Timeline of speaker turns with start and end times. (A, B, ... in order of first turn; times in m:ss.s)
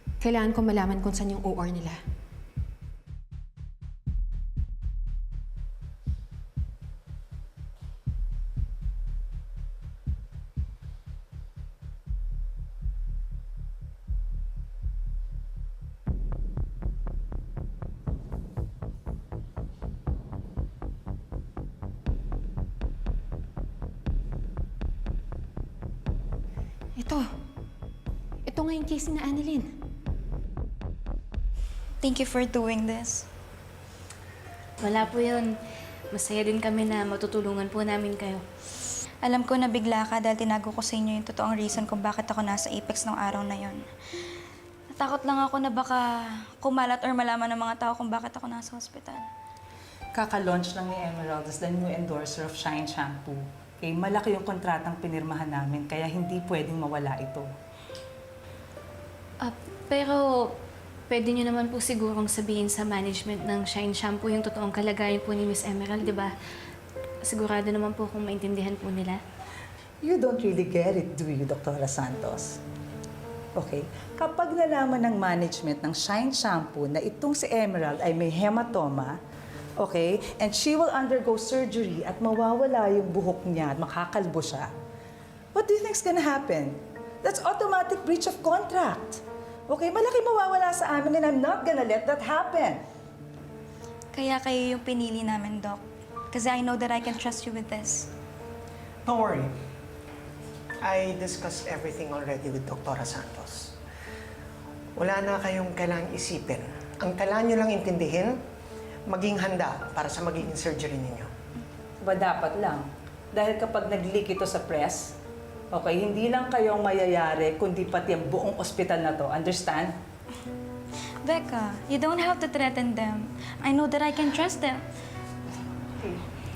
0:00.2-0:02.0 A
0:27.0-0:27.3 A
0:28.4-0:29.7 A
0:32.0-0:33.2 B
0:34.8-0:35.5 C
0:36.1-0:38.4 C
0:39.2-0:43.8 B
0:44.9-0:49.3 B
0:50.1-0:57.5 D
0:59.4-1:00.5 C
1:01.1-1:06.3 C
1:07.2-1:09.2 C
1:10.0-1:12.6 D
1:13.5-1:19.2 D
1:19.8-1:24.7 D
1:25.5-1:32.8 D
1:34.1-1:35.8 B
1:36.3-1:38.1 B
1:39.0-1:39.5 E
1:40.8-1:43.7 E
1:45.0-1:48.4 E
1:49.1-1:51.3 E
1:52.0-1:55.1 D
1:55.7-1:59.9 D
2:01.2-2:04.8 B